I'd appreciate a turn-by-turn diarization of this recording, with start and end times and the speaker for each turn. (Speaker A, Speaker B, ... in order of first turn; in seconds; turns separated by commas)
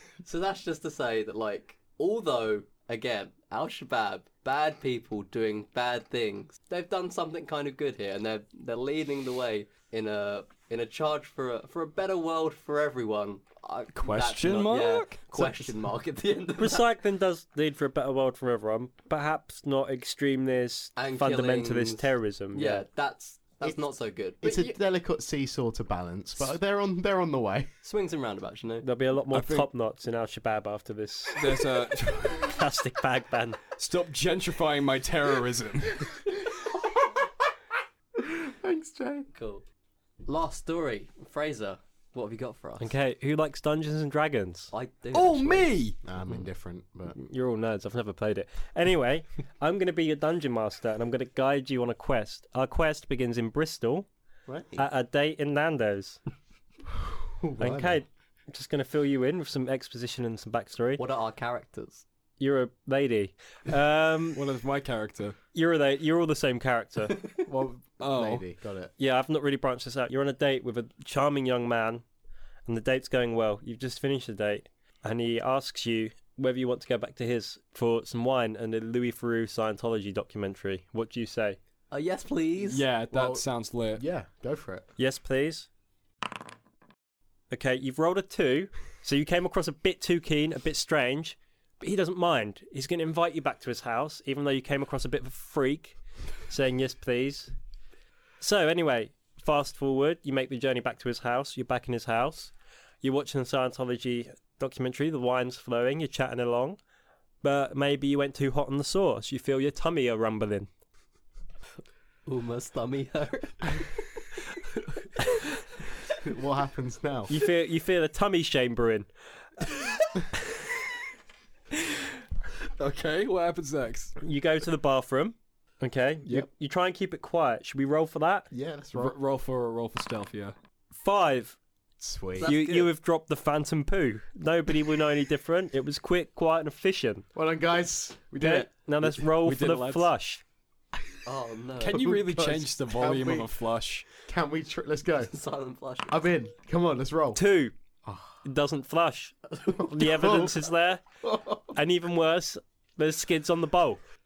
Speaker A: 0.2-16.8, Speaker B: 13.9-15.7, Speaker C: 16.6-22.8, Speaker A: 20.9-24.8, Speaker D: 24.4-27.7, Speaker A: 27.8-28.9, Speaker C: 28.8-31.5, Speaker B: 29.3-29.7, Speaker B: 31.4-32.6, Speaker C: 32.4-33.6, Speaker B: 33.8-36.3, Speaker D: 36.6-37.3, Speaker D: 38.2-39.3, Speaker A: 39.3-39.6, Speaker A: 40.2-42.9, Speaker C: 42.8-44.7, Speaker A: 44.7-45.7, Speaker B: 45.1-46.0, Speaker D: 46.0-47.2, Speaker C: 47.1-54.1, Speaker D: 54.5-54.9, Speaker C: 54.8-56.2, Speaker D: 57.0-58.0, Speaker C: 57.6-61.0, Speaker A: 61.0-62.0, Speaker C: 62.4-64.4, Speaker B: 64.3-65.3, Speaker C: 65.5-67.3, Speaker D: 67.4-68.9, Speaker B: 68.0-68.4, Speaker C: 69.0-72.0, Speaker C: 72.7-81.6, Speaker A: 81.9-82.8, Speaker B: 82.6-84.0, Speaker D: 83.1-84.9, Speaker C: 85.0-85.7, Speaker C: 87.5-97.5, Speaker C: 98.4-106.8, Speaker C: 107.4-110.7, Speaker A: 112.2-113.8, Speaker D: 116.2-117.3, Speaker C: 117.3-119.1, Speaker B: 122.8-124.2, Speaker C: 124.2-128.5, Speaker D: 128.5-129.2, Speaker B: 128.9-130.6, Speaker C: 130.9-131.6, Speaker D: 132.0-132.5, Speaker A: 132.4-132.9, Speaker C: 132.4-137.2, Speaker D: 137.3-138.7, Speaker C: 138.4-140.4, Speaker B: 139.0-140.1, Speaker A: 141.2-142.1, Speaker B: 141.8-144.1, Speaker D: 141.9-143.5, Speaker D: 144.2-145.3, Speaker A: 145.2-146.2, Speaker D: 146.1-147.4, Speaker C: 147.3-147.7, Speaker D: 148.0-148.4, Speaker C: 148.4-151.0, Speaker D: 149.7-150.7, Speaker D: 151.2-151.8, Speaker C: 151.7-154.0